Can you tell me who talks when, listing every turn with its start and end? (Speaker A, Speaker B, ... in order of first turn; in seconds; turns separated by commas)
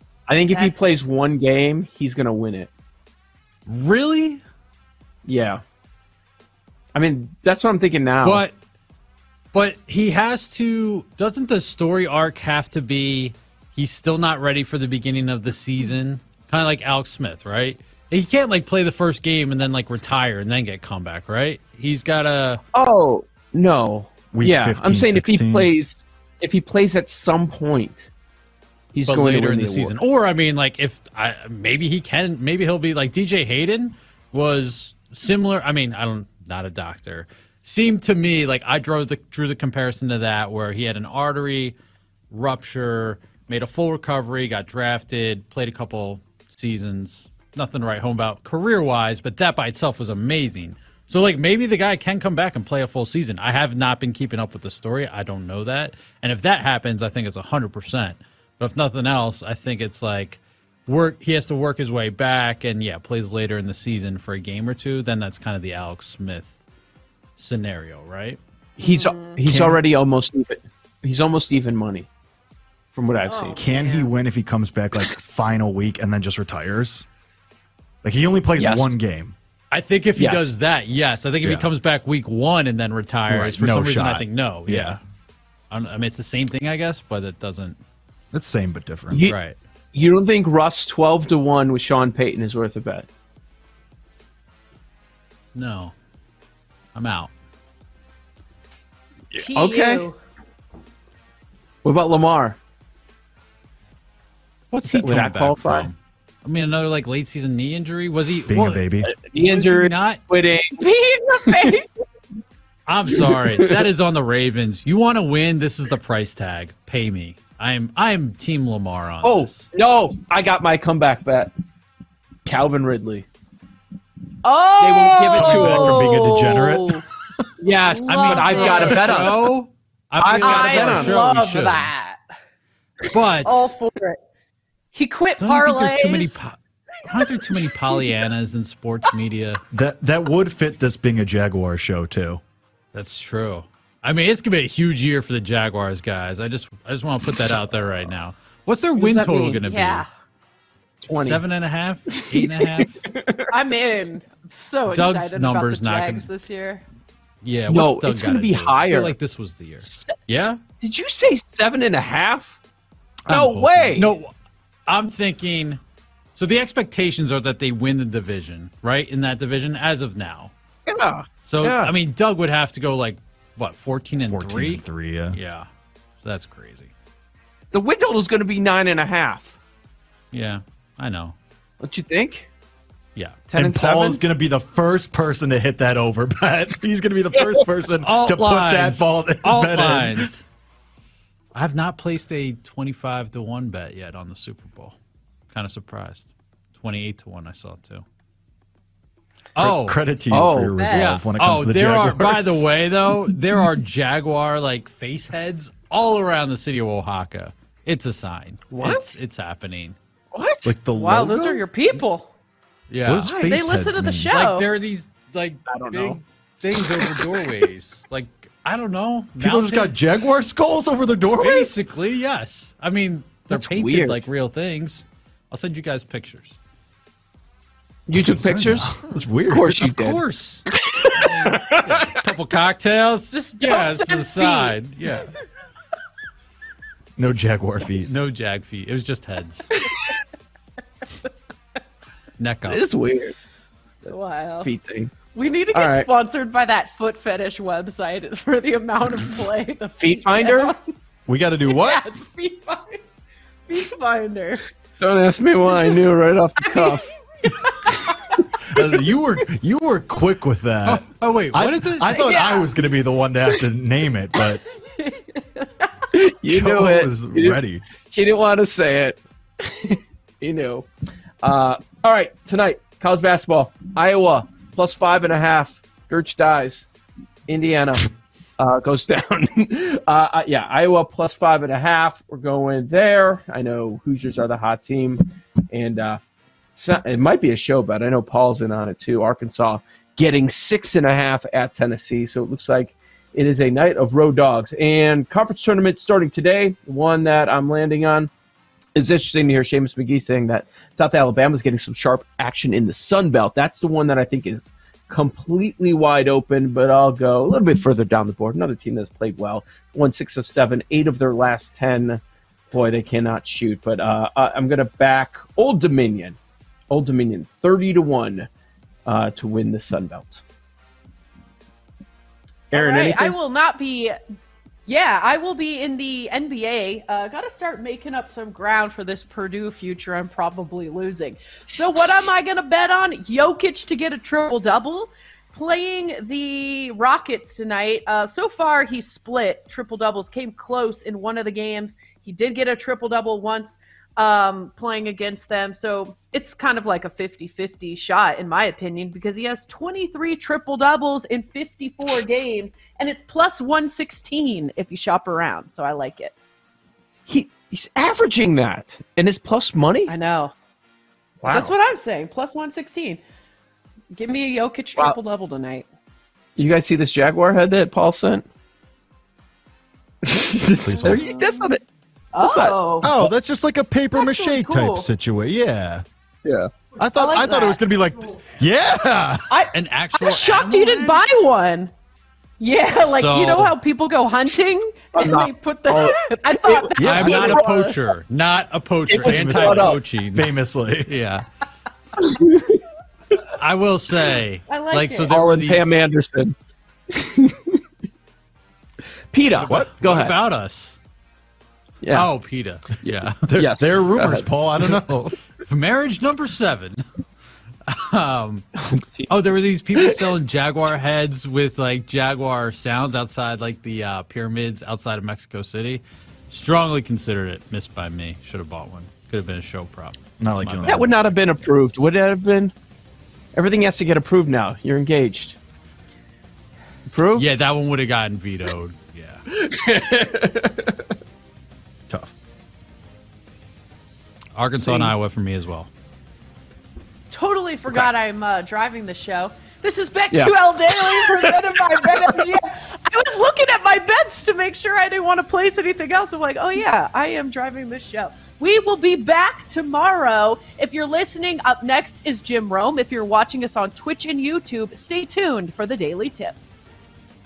Speaker A: 0.3-2.7, Speaker B: 0.5-1.0, Speaker C: 3.7-4.4, Speaker A: 5.2-5.6, Speaker A: 6.9-8.4, Speaker C: 8.2-8.5, Speaker C: 9.5-22.6, Speaker A: 22.7-28.1, Speaker D: 24.3-25.7, Speaker A: 28.9-29.9, Speaker C: 29.0-41.8, Speaker C: 42.3-66.5, Speaker C: 67.4-68.4, Speaker A: 68.8-72.1, Speaker B: 68.8-69.4, Speaker D: 69.5-69.8, Speaker A: 72.9-73.6, Speaker B: 73.2-74.1, Speaker D: 73.5-77.0, Speaker D: 78.0-79.3, Speaker A: 78.6-78.9, Speaker C: 79.7-85.0, Speaker A: 80.2-80.5, Speaker D: 83.3-85.0, Speaker C: 85.7-87.8, Speaker D: 88.3-89.2, Speaker A: 89.1-89.3, Speaker C: 89.3-89.6, Speaker A: 89.9-93.0, Speaker C: 95.5-95.9, Speaker C: 96.9-97.3, Speaker A: 99.3-100.0, Speaker B: 99.4-100.2, Speaker A: 101.8-102.6, Speaker C: 104.7-108.9, Speaker A: 104.8-105.9, Speaker D: 108.5-109.1, Speaker A: 109.0-110.8, Speaker C: 109.4-110.2, Speaker B: 110.8-111.8, Speaker A: 111.5-111.7, Speaker C: 112.9-119.7, Speaker A: 113.1-113.7, Speaker A: 119.2-121.5, Speaker A: 122.4-123.2, Speaker B: 124.4-127.0, Speaker A: 124.8-126.0, Speaker D: 125.3-127.4, Speaker A: 127.6-129.4, Speaker B: 127.8-129.3, Speaker C: 128.1-131.9, Speaker A: 130.2-131.2, Speaker B: 130.4-132.2, Speaker C: 133.1-133.7, Speaker B: 133.4-134.2, Speaker B: 134.9-136.3, Speaker C: 135.4-139.6, Speaker D: 139.7-142.4, Speaker C: 142.9-150.0, Speaker A: 149.0-149.6, Speaker B: 149.7-150.1, Speaker A: 151.0-151.4, Speaker C: 151.1-153.0, Speaker A: 152.8-153.5, Speaker B: 153.5-156.8, Speaker C: 154.9-156.3, Speaker C: 157.4-160.6, Speaker A: 157.7-159.1, Speaker A: 159.8-160.1, Speaker A: 160.8-162.6, Speaker C: 163.3-164.3, Speaker A: 163.3-164.1, Speaker C: 164.9-165.8, Speaker C: 166.3-170.5, Speaker A: 170.9-171.9, Speaker C: 171.4-175.7, Speaker D: 174.2-175.4, Speaker C: 176.2-176.9, Speaker A: 177.7-179.5, Speaker C: 180.3-181.3, Speaker A: 181.8-182.5, Speaker C: 183.1-183.4, Speaker A: 183.5-184.2, Speaker D: 183.5-190.3, Speaker C: 188.0-190.4, Speaker C: 191.5-194.9, Speaker C: 195.5-198.0, Speaker C: 199.6-200.0, Speaker D: 199.6-202.7, Speaker A: 200.3-200.8, Speaker B: 200.7-201.1, Speaker C: 200.9-209.9, Speaker A: 208.7-209.2, Speaker A: 210.3-210.7, Speaker D: 210.6-211.4, Speaker B: 210.9-212.3, Speaker A: 211.3-211.6, Speaker C: 212.9-213.3, Speaker D: 213.0-214.3, Speaker B: 213.3-214.7, Speaker C: 214.3-219.9, Speaker A: 215.7-216.2, Speaker D: 219.4-221.7, Speaker C: 221.3-226.6, Speaker A: 223.5-224.2, Speaker A: 228.1-229.0, Speaker D: 228.2-229.8, Speaker A: 229.5-232.2, Speaker C: 229.7-235.3, Speaker B: 233.3-234.7, Speaker D: 237.2-238.1, Speaker C: 238.0-239.8, Speaker C: 242.4-242.8, Speaker A: 242.7-243.4, Speaker B: 244.1-244.7, Speaker A: 244.6-245.1, Speaker B: 245.3-250.8, Speaker A: 245.7-246.1, Speaker A: 250.0-250.7, Speaker D: 251.3-252.0, Speaker B: 251.6-253.0, Speaker B: 253.7-254.6, Speaker A: 255.0-257.0, Speaker B: 255.7-256.1, Speaker B: 256.6-258.3, Speaker D: 258.7-264.6, Speaker C: 260.9-262.1, Speaker B: 262.1-262.7, Speaker B: 264.8-265.9, Speaker A: 266.1-270.9, Speaker D: 266.4-267.8, Speaker A: 271.4-276.9, Speaker A: 277.5-278.1, Speaker A: 278.6-286.2, Speaker A: 286.7-298.3, Speaker A: 298.9-316.4, Speaker A: 316.9-318.5, Speaker A: 319.1-320.4, Speaker A: 322.7-323.3, Speaker B: 322.7-324.1, Speaker B: 324.9-356.3, Speaker A: 357.3-360.1, Speaker B: 360.1-360.5, Speaker A: 361.4-361.7, Speaker B: 361.4-363.2, Speaker B: 364.1-365.9, Speaker A: 366.6-368.4, Speaker A: 370.2-371.8, Speaker D: 370.8-371.2, Speaker B: 371.1-371.8, Speaker B: 372.3-373.1, Speaker A: 372.4-373.2, Speaker D: 373.0-376.0, Speaker B: 374.1-375.1, Speaker A: 376.4-376.7, Speaker D: 377.0-379.5, Speaker B: 377.1-377.8, Speaker B: 379.5-381.9, Speaker C: 379.7-381.2, Speaker B: 382.6-387.9, Speaker C: 383.0-383.8, Speaker A: 385.1-387.6, Speaker D: 386.9-387.5, Speaker C: 387.0-390.5, Speaker A: 389.1-390.0, Speaker D: 389.1-391.1, Speaker C: 391.0-391.5, Speaker A: 392.2-392.8, Speaker C: 393.5-395.9, Speaker B: 394.7-395.3, Speaker A: 395.3-396.5, Speaker A: 397.1-397.8, Speaker A: 399.3-400.4, Speaker C: 399.5-400.9, Speaker D: 399.6-399.9, Speaker A: 402.0-402.3, Speaker C: 402.1-403.4, Speaker D: 403.2-405.4, Speaker A: 403.6-404.9, Speaker C: 405.6-407.0, Speaker C: 407.9-408.8, Speaker A: 408.8-410.2, Speaker C: 409.3-421.4, Speaker D: 420.4-421.1, Speaker A: 420.8-422.7, Speaker A: 423.5-425.6, Speaker A: 427.1-427.5, Speaker C: 427.3-429.4, Speaker A: 429.5-431.1, Speaker C: 434.5-435.9, Speaker A: 434.8-435.1, Speaker B: 437.3-456.5, Speaker A: 440.3-441.6